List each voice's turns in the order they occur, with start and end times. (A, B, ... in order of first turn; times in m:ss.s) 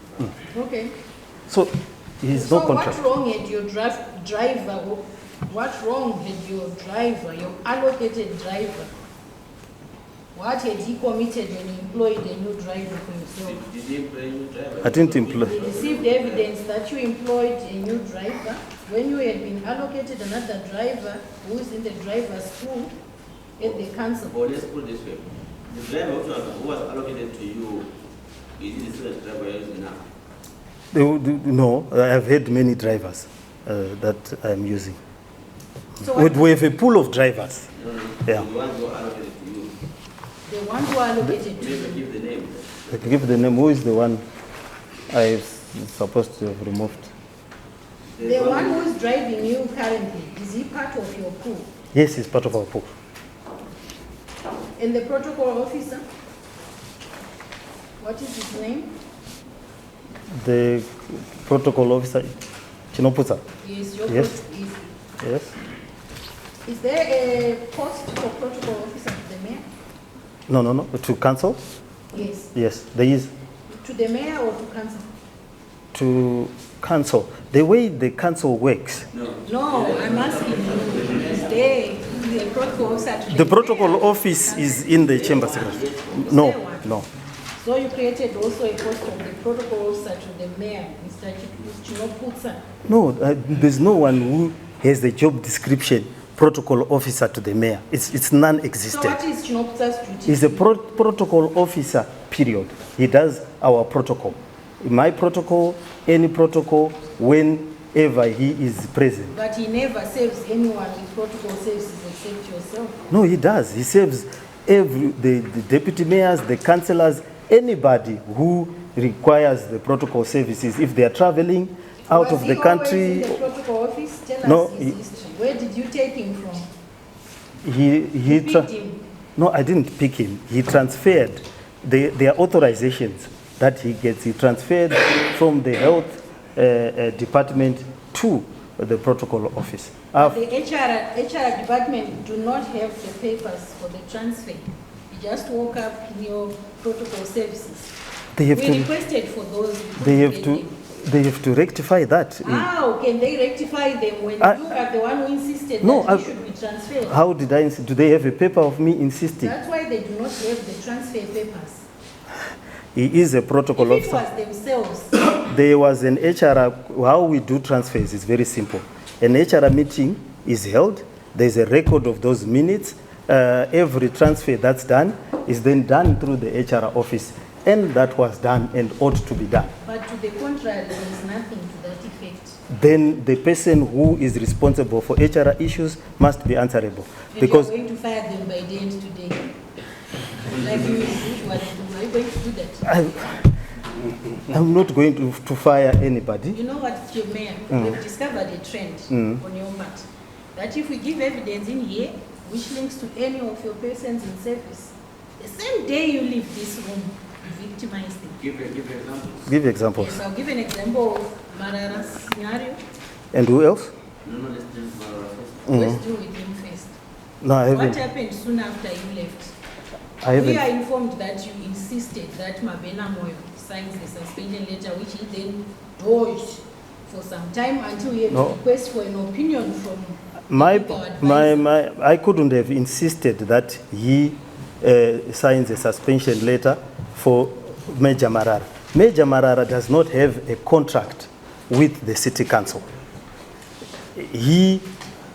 0:00.5-0:01.0 A
0:01.5-0:03.0 B
0:02.3-0:08.9 A
0:10.3-0:13.6 A
0:13.5-0:16.5 C
0:14.8-0:15.6 B
0:15.4-0:22.9 A
0:23.6-0:24.4 A
0:24.3-0:27.9 C
0:28.6-0:30.0 C
0:30.9-0:35.0 B
0:36.0-0:36.5 A
0:36.0-0:37.7 B
0:37.8-0:39.8 C
0:40.5-0:42.0 A
0:41.5-0:42.7 C
0:42.9-0:44.2 B
0:45.1-0:47.1 B
0:48.2-0:48.8 C
0:48.2-0:51.7 A
0:51.9-0:52.9 B
0:54.8-0:56.0 A
0:58.0-0:58.9 A
1:00.3-1:02.3 B
1:02.9-1:03.4 B
1:03.6-1:04.9 A
1:05.2-1:05.5 B
1:06.7-1:09.7 A
1:10.5-1:11.6 B
1:12.1-1:12.5 A
1:12.5-1:13.3 B
1:13.7-1:15.1 A
1:15.9-1:19.1 B
1:19.1-1:21.5 C
1:19.4-1:25.0 A
1:23.3-1:27.1 B
1:25.0-1:26.2 C
1:26.1-1:26.9 A
1:27.6-1:32.6 A
1:32.9-1:39.2 B
1:38.9-1:40.7 A
1:40.3-1:49.4 B
1:49.3-1:53.1 A
1:53.1-2:03.4 B
2:02.1-2:06.7 A
2:04.4-2:05.0 B
2:07.6-2:08.7 B
2:08.3-2:09.0 A
2:09.4-2:20.4 B
2:20.2-2:27.9 A
2:28.4-2:28.9 B
2:28.5-2:30.8 A
2:30.0-2:32.7 B
2:32.4-2:37.2 A
2:34.4-2:34.7 B
2:35.8-2:36.3 B
2:37.1-2:39.5 B
2:39.4-2:41.8 A
2:43.0-2:44.2 B
2:43.8-2:45.3 A
2:45.4-2:59.7 B
2:59.8-3:02.6 A
3:02.7-3:07.7 B
3:07.3-3:09.5 A
3:10.5-3:12.9 A
3:12.9-3:13.5 B
3:14.5-3:16.6 B
3:16.5-3:28.4 A
3:19.1-3:19.4 B
3:28.4-3:29.5 C
3:29.5-3:30.2 B
3:30.0-3:32.8 A
3:33.3-3:33.9 B
3:34.2-3:35.7 C
3:35.7-3:37.0 A
3:35.7-3:36.0 B
3:37.4-3:38.0 B
3:37.7-3:39.5 A
3:40.2-3:40.6 B
3:40.3-3:51.7 A
3:48.3-3:48.6 B
3:50.5-4:02.9 B
4:04.2-4:04.8 B